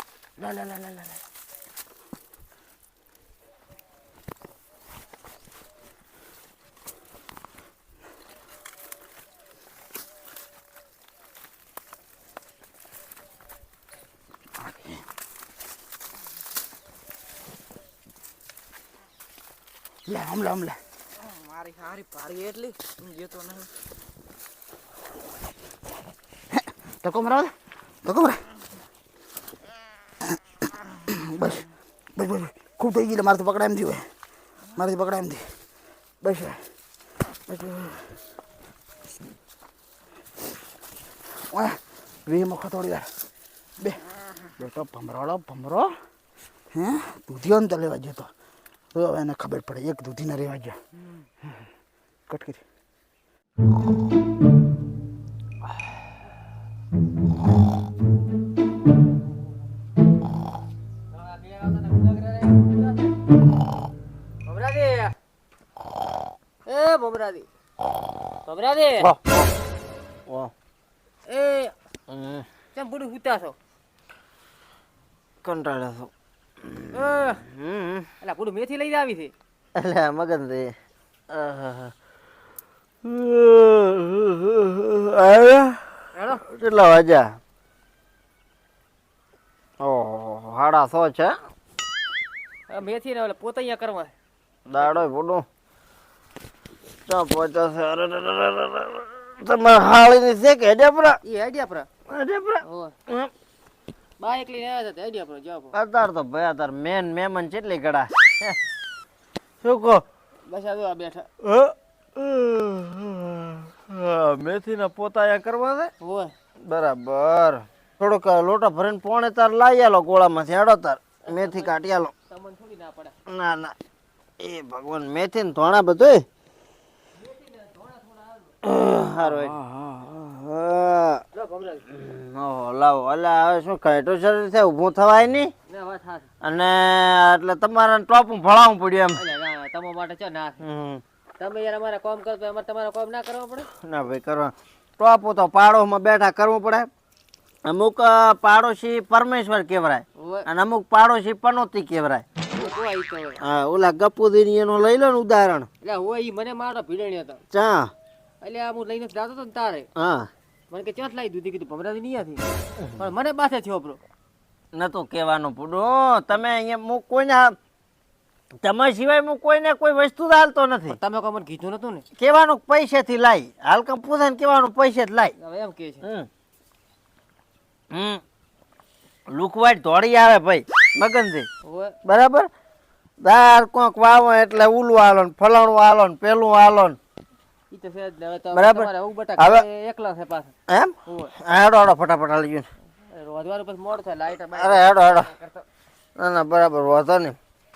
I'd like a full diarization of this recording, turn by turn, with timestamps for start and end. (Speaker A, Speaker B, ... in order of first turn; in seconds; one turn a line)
Speaker A: 14.6-15.0
Speaker A: 20.1-20.8
Speaker B: 21.2-23.7
Speaker A: 26.5-27.5
Speaker A: 28.0-28.4
Speaker A: 31.1-31.6
Speaker A: 32.1-34.0
Speaker A: 34.8-35.4
Speaker A: 36.2-36.6
Speaker A: 37.5-38.0
Speaker A: 41.5-43.1
Speaker A: 44.6-45.9
Speaker A: 46.7-48.3
Speaker A: 48.9-50.8
Speaker A: 52.3-52.6
Speaker C: 61.1-63.1
Speaker C: 64.5-65.1
Speaker C: 66.7-67.5
Speaker C: 68.5-69.1
Speaker D: 69.0-69.5
Speaker C: 71.3-71.7
Speaker D: 72.1-72.4
Speaker C: 72.7-73.5
Speaker D: 75.4-76.1
Speaker D: 76.7-78.0
Speaker C: 76.9-77.4
Speaker C: 78.2-79.3
Speaker D: 79.8-80.7
Speaker D: 81.3-81.9
Speaker D: 83.0-85.8
Speaker C: 86.2-86.4
Speaker D: 86.4-87.4
Speaker D: 89.8-91.4
Speaker C: 92.7-94.1
Speaker D: 94.7-95.4
Speaker D: 97.1-101.2
Speaker C: 101.2-101.9
Speaker D: 102.1-103.3
Speaker C: 102.6-102.9
Speaker C: 104.2-105.7
Speaker D: 105.7-108.6
Speaker D: 109.6-110.0
Speaker C: 110.5-111.3
Speaker D: 111.4-115.9
Speaker C: 116.0-116.3
Speaker D: 116.7-122.1
Speaker C: 121.3-121.7
Speaker C: 122.3-123.1
Speaker D: 123.3-123.7
Speaker D: 124.4-126.2
Speaker C: 127.2-128.5
Speaker D: 128.6-131.2
Speaker C: 131.3-131.8
Speaker D: 131.9-135.5
Speaker C: 135.7-136.2
Speaker D: 136.4-139.2
Speaker C: 139.2-140.6
Speaker D: 140.6-141.0
Speaker C: 141.4-143.7
Speaker D: 143.8-146.9
Speaker D: 147.6-152.2
Speaker C: 150.2-150.4
Speaker C: 152.6-153.4
Speaker D: 153.4-155.7
Speaker C: 155.8-157.4
Speaker D: 157.5-157.9
Speaker C: 158.4-159.9
Speaker D: 159.9-160.3
Speaker C: 160.7-162.4
Speaker C: 163.0-164.0
Speaker D: 164.7-167.5
Speaker D: 168.6-171.0
Speaker C: 170.9-172.0
Speaker D: 172.2-175.3
Speaker C: 175.4-176.0
Speaker D: 176.0-176.3
Speaker D: 177.9-178.2
Speaker D: 179.3-181.5
Speaker C: 181.6-181.9
Speaker D: 182.0-182.5
Speaker D: 183.2-187.0
Speaker C: 187.7-190.5
Speaker D: 188.5-189.6
Speaker D: 190.7-192.7
Speaker C: 191.1-191.3
Speaker C: 193.1-195.6
Speaker D: 194.5-195.3
Speaker D: 196.2-197.3